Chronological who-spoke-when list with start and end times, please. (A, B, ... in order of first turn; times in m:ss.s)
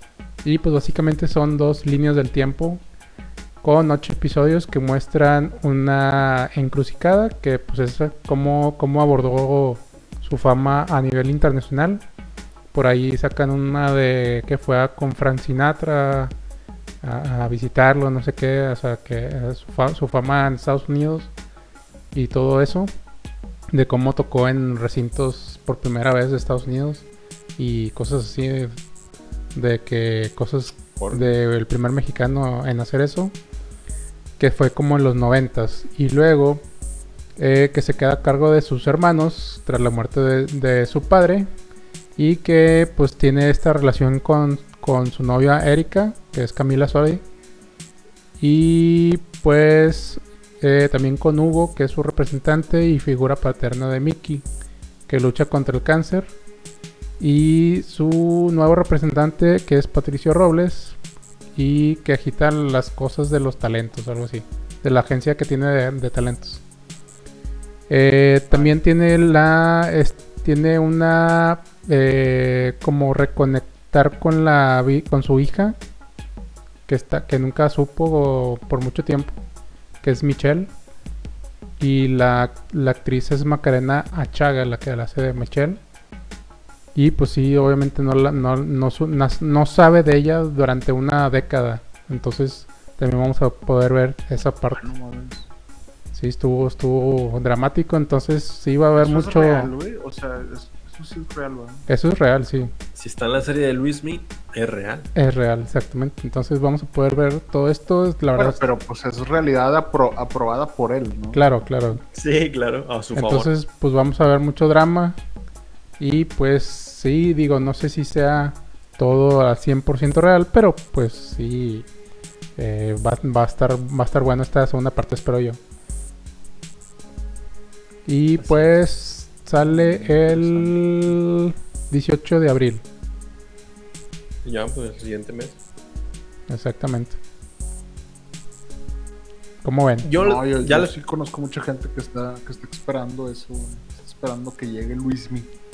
0:00.4-0:02.8 A
0:03.6-0:12.0 A
0:12.7-0:16.3 A
0:17.0-0:21.3 A
0:22.1-0:22.9 A
0:23.7-0:27.0 A
0:27.6-0:28.8 A
0:29.5-0:33.3 A
0:31.0-0:31.3 B
0:34.4-0:36.6 A
0:37.4-0:41.5 A
0:42.2-0:47.2 A
0:48.4-0:54.4 A
0:55.1-0:56.3 A
0:57.2-1:01.0 A
1:01.6-1:06.6 A
1:07.9-1:15.8 A
1:16.9-1:19.4 A
1:20.0-1:20.7 A
1:21.8-1:25.8 A
1:26.9-1:34.9 A
1:34.7-1:35.5 B
1:36.1-1:39.7 A
1:39.0-1:41.8 B
1:41.9-1:42.7 A
1:42.9-1:45.1 C
1:45.1-1:48.6 A
1:48.4-1:51.4 B
1:51.3-1:52.0 A
1:52.1-1:53.5 C
1:53.1-1:55.2 A
1:56.0-2:01.9 A
2:02.6-2:05.6 A
2:08.0-2:12.8 A
2:08.4-2:08.7 C
2:09.6-2:10.9 B
2:14.4-2:15.6 C
2:16.5-2:17.2 A
2:19.6-2:20.1 A
2:20.0-2:20.9 C
2:20.1-2:25.5 B